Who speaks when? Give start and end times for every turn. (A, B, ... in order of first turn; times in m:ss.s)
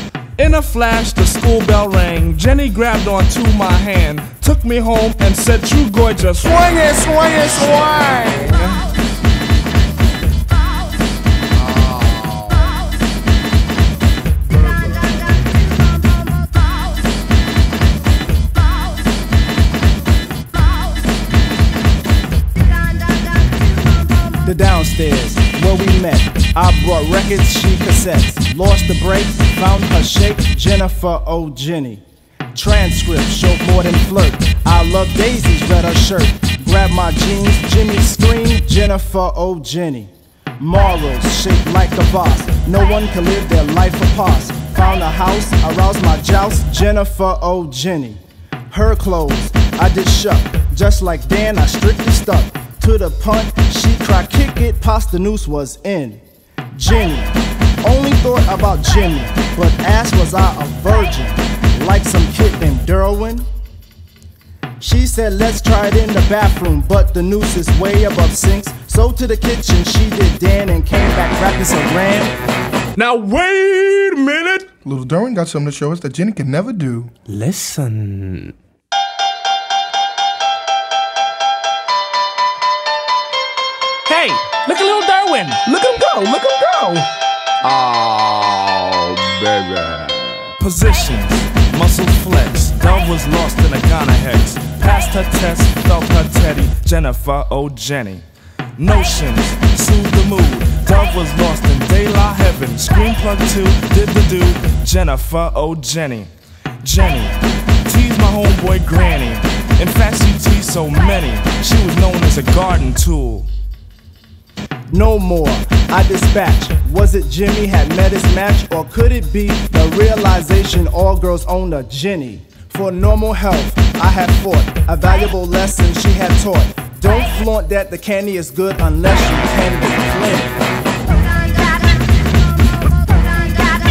0:00.4-0:06.6 A
0:06.5-0:08.5 B
0:08.4-0:08.7 C
0:11.6-0:12.6 C
0:24.3-0:32.0 D
0:32.5-0:56.2 D
0:56.7-1:03.4 D
1:04.8-1:12.3 D
1:13.0-1:14.7 A
1:14.8-1:17.1 B
1:17.3-1:18.5 A
1:24.0-1:25.6 A
1:25.6-1:27.1 B
1:27.6-1:30.5 C
1:30.6-1:38.2 A
1:38.8-1:46.3 A
1:46.8-1:53.5 A
1:54.9-2:10.6 D